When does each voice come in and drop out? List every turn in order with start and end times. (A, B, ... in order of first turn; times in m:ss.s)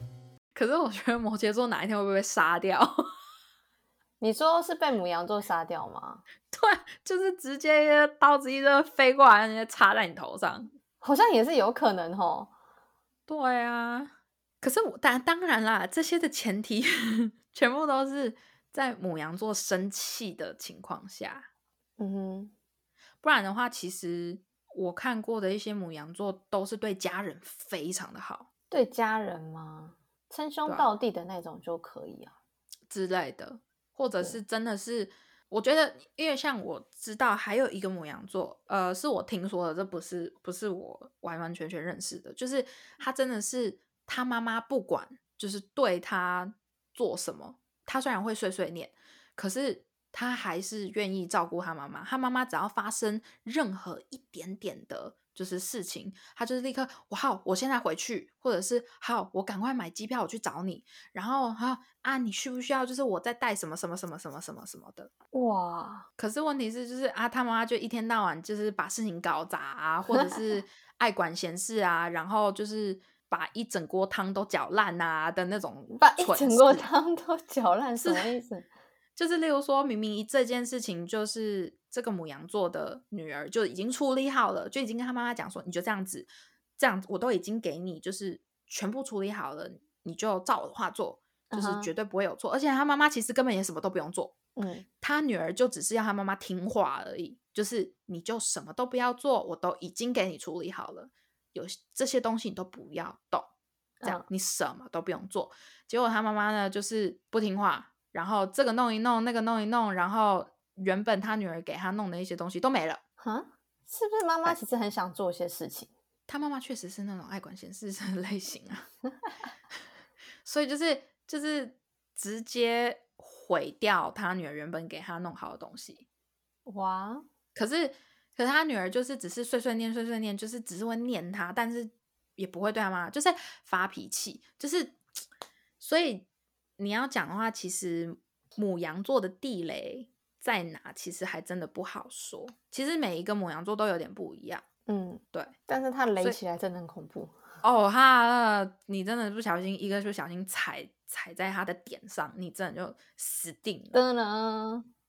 0:00.6-0:03.0 A
0:04.2-0:06.2 B
0:06.5-0:10.7 A
0:11.0-0:12.5 B
0:13.3-0:21.5 A
0:22.0-0:22.5 B
0:23.2-0:28.5 A
0:28.7-0:32.4 B
0:30.6-0:30.9 A
0:32.9-1:05.1 A
1:05.3-1:06.1 B
1:06.2-1:16.8 A
1:15.9-1:18.7 B
1:18.0-1:18.4 A
1:19.2-1:34.4 A
1:31.5-1:31.9 B
1:34.6-1:34.9 B
1:35.0-1:43.5 A
1:44.0-1:53.0 A
1:53.2-1:55.9 B
1:56.3-1:58.9 A
2:00.4-2:06.0 A
2:06.7-2:07.3 B
2:07.6-2:15.0 A
2:15.8-2:16.3 A
2:16.8-2:24.6 A
2:24.9-2:27.4 B
2:27.6-2:34.0 A
2:33.9-2:34.9 B